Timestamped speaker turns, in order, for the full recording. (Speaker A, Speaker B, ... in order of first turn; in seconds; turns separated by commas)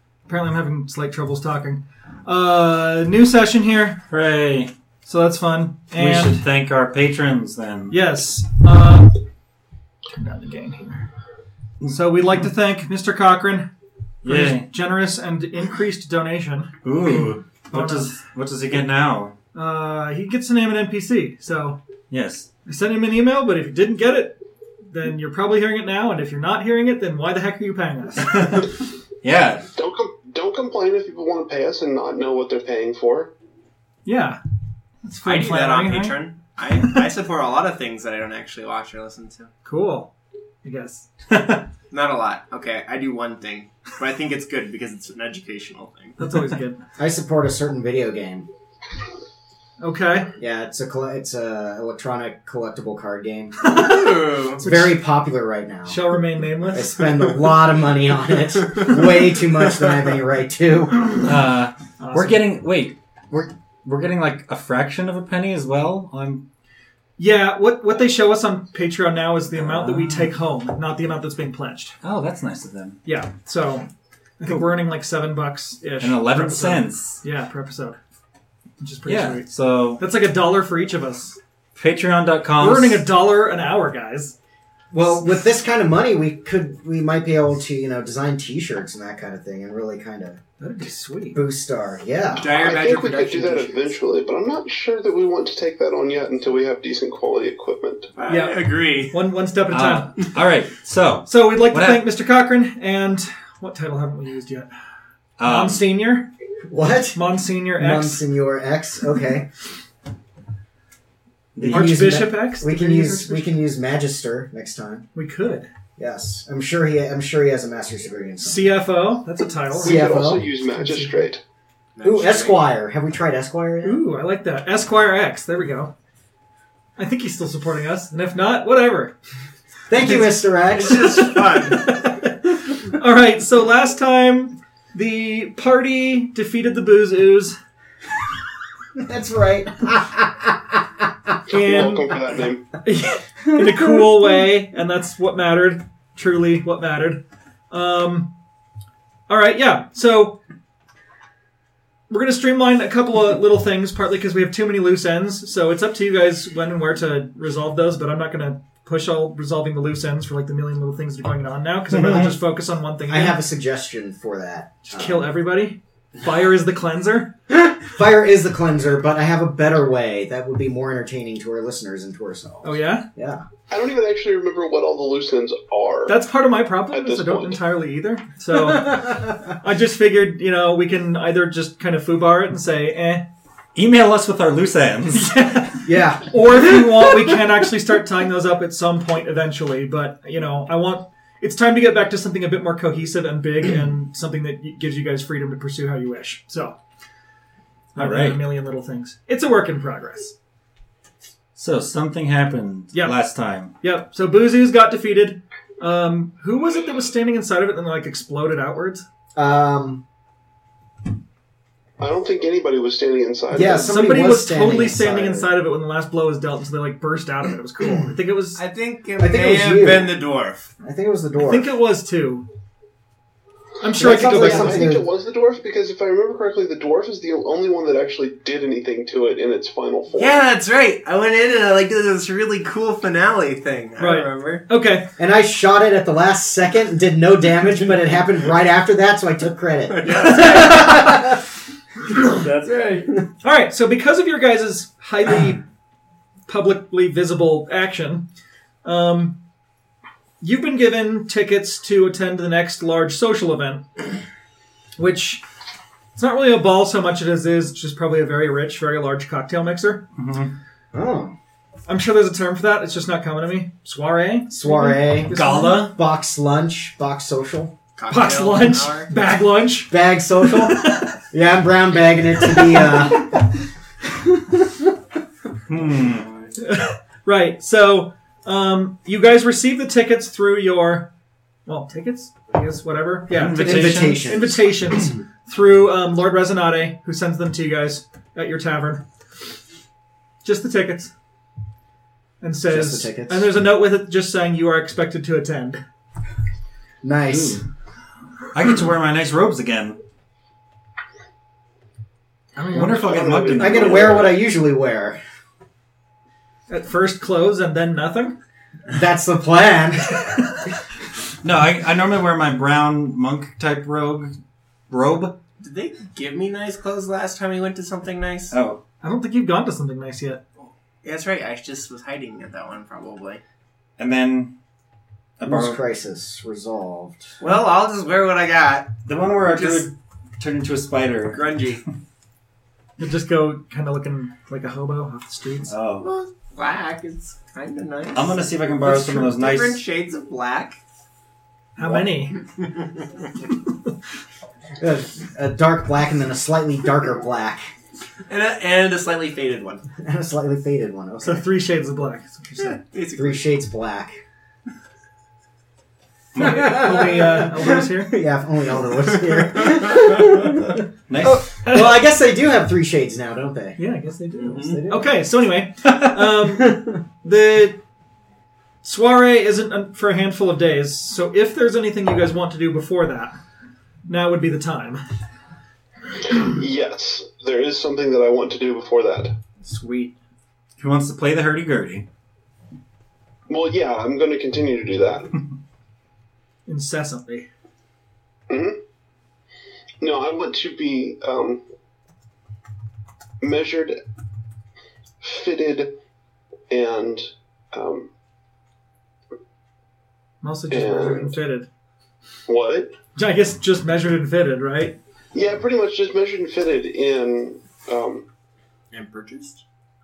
Speaker A: 0.3-4.0, Speaker B: 4.1-4.7, Speaker A: 5.0-6.4, Speaker B: 5.9-8.0, Speaker A: 7.9-9.1, Speaker A: 10.1-11.1, Speaker A: 11.9-13.7, Speaker B: 14.2-14.7, Speaker A: 14.2-16.7, Speaker B: 16.8-19.3, Speaker A: 17.7-18.2, Speaker A: 19.5-21.8, Speaker B: 22.1-22.5, Speaker A: 22.7-24.4, Speaker A: 24.9-28.7, Speaker B: 28.2-28.6, Speaker B: 29.2-29.7, Speaker C: 29.8-33.3, Speaker A: 34.0-34.4, Speaker A: 35.0-36.2, Speaker D: 35.2-39.5, Speaker A: 39.6-40.1, Speaker A: 40.6-41.6, Speaker D: 41.9-46.3, Speaker A: 46.2-46.8, Speaker E: 47.0-48.5, Speaker A: 49.8-50.3, Speaker E: 50.4-53.5, Speaker A: 53.6-54.9, Speaker D: 53.6-54.6, Speaker E: 54.6-56.0, Speaker A: 55.9-57.1, Speaker E: 56.7-61.2, Speaker B: 61.1-66.4, Speaker A: 62.0-62.4, Speaker A: 67.2-72.0, Speaker B: 69.5-70.3, Speaker B: 72.0-73.0, Speaker A: 73.0-73.9, Speaker A: 74.4-78.0, Speaker B: 76.0-77.2, Speaker A: 78.8-81.4, Speaker B: 79.0-80.0, Speaker B: 81.7-83.0, Speaker A: 82.6-84.3, Speaker E: 84.9-90.4, Speaker A: 90.6-91.4, Speaker E: 91.3-92.6, Speaker D: 92.3-94.0, Speaker C: 92.5-98.1, Speaker D: 98.2-99.2, Speaker A: 98.3-100.1, Speaker B: 99.7-102.1, Speaker A: 101.3-104.7, Speaker B: 105.4-105.9, Speaker A: 105.4-106.3, Speaker E: 106.6-107.2, Speaker A: 107.1-108.2, Speaker E: 107.8-109.5, Speaker B: 111.5-112.2, Speaker E: 111.6-115.0, Speaker A: 111.7-113.6, Speaker A: 115.1-115.7, Speaker E: 116.0-118.7, Speaker A: 118.4-120.2, Speaker E: 119.8-120.5, Speaker C: 119.8-121.4, Speaker A: 120.7-121.1, Speaker D: 122.0-122.6, Speaker E: 122.0-124.0, Speaker A: 123.8-125.9, Speaker A: 127.0-129.1, Speaker E: 129.9-131.4, Speaker A: 130.0-137.6, Speaker D: 130.7-131.9, Speaker E: 138.9-141.3, Speaker A: 141.5-142.1, Speaker C: 141.5-142.6, Speaker A: 142.8-148.3, Speaker A: 149.3-150.4, Speaker A: 152.1-163.4, Speaker B: 161.9-162.4, Speaker E: 163.1-165.3, Speaker A: 164.8-167.3, Speaker E: 167.5-173.4, Speaker A: 172.6-173.0, Speaker C: 173.7-176.2, Speaker A: 176.1-183.2, Speaker C: 176.9-177.6, Speaker E: 178.7-179.3, Speaker B: 183.7-185.3, Speaker A: 185.1-196.8, Speaker E: 185.8-187.1, Speaker B: 197.9-198.5, Speaker A: 197.9-200.3, Speaker B: 201.5-203.7, Speaker A: 202.9-203.2, Speaker A: 203.8-209.0, Speaker E: 209.3-210.0, Speaker C: 212.0-214.0, Speaker E: 213.5-215.5, Speaker A: 213.9-218.6, Speaker D: 218.5-220.7, Speaker E: 219.2-220.1, Speaker E: 220.8-221.7, Speaker A: 221.4-222.4, Speaker A: 223.8-224.9, Speaker E: 223.9-225.1, Speaker C: 224.1-230.4, Speaker D: 230.1-234.6, Speaker A: 234.0-235.1, Speaker E: 235.2-241.4, Speaker D: 239.9-241.1, Speaker A: 240.1-241.2, Speaker D: 242.2-243.1, Speaker A: 243.4-245.6, Speaker A: 246.5-248.2, Speaker A: 248.8-249.4, Speaker A: 250.4-253.9, Speaker A: 255.0-255.4, Speaker A: 256.1-260.0, Speaker B: 260.2-260.5, Speaker E: 260.9-261.3, Speaker A: 261.9-265.9, Speaker E: 264.5-267.7, Speaker B: 265.3-265.9, Speaker D: 268.0-269.1, Speaker A: 268.1-271.1, Speaker E: 269.9-273.4, Speaker A: 272.4-272.9, Speaker E: 274.2-274.9, Speaker B: 275.7-276.3, Speaker A: 276.6-281.1, Speaker A: 281.6-289.0, Speaker B: 283.3-284.3, Speaker E: 283.6-284.6, Speaker A: 290.4-291.1, Speaker A: 292.4-295.8, Speaker E: 292.7-293.5, Speaker E: 297.0-297.6, Speaker B: 297.3-297.6, Speaker B: 298.5-300.0, Speaker A: 302.6-303.0, Speaker B: 302.7-304.2, Speaker C: 302.7-304.4, Speaker E: 303.5-305.2, Speaker A: 306.7-308.4, Speaker E: 308.9-310.2, Speaker B: 311.4-314.3, Speaker B: 314.9-315.3, Speaker D: 315.6-318.5, Speaker B: 318.5-318.8, Speaker A: 319.0-320.4, Speaker D: 321.0-323.4, Speaker B: 324.0-324.5, Speaker B: 325.4-325.8, Speaker E: 325.4-327.4, Speaker D: 327.4-329.9, Speaker B: 329.0-331.4, Speaker D: 331.3-331.8, Speaker A: 333.0-335.7, Speaker B: 335.7-336.1, Speaker D: 336.0-340.8, Speaker B: 338.1-339.8, Speaker A: 341.8-342.4, Speaker E: 344.8-347.7, Speaker D: 348.3-349.8, Speaker E: 350.0-351.4, Speaker A: 351.2-352.8, Speaker D: 352.8-353.4, Speaker E: 353.1-354.2, Speaker B: 356.3-356.8, Speaker A: 356.4-358.2, Speaker E: 356.4-363.8, Speaker D: 359.3-360.0, Speaker B: 361.1-361.5, Speaker A: 361.2-362.0, Speaker A: 363.8-367.8, Speaker D: 364.4-364.8, Speaker E: 364.4-365.1, Speaker E: 366.4-367.0, Speaker A: 368.8-373.3, Speaker A: 374.1-375.0, Speaker C: 376.4-379.3, Speaker A: 379.6-380.1, Speaker B: 380.8-382.0, Speaker C: 383.5-385.3, Speaker A: 386.7-387.5, Speaker C: 388.5-388.8, Speaker C: 390.0-391.6, Speaker C: 393.4-393.9, Speaker C: 395.2-395.9, Speaker C: 396.7-398.1, Speaker A: 400.4-401.7, Speaker C: 400.7-401.3, Speaker C: 402.5-402.9, Speaker A: 403.1-404.9, Speaker C: 405.3-408.2, Speaker D: 408.9-409.6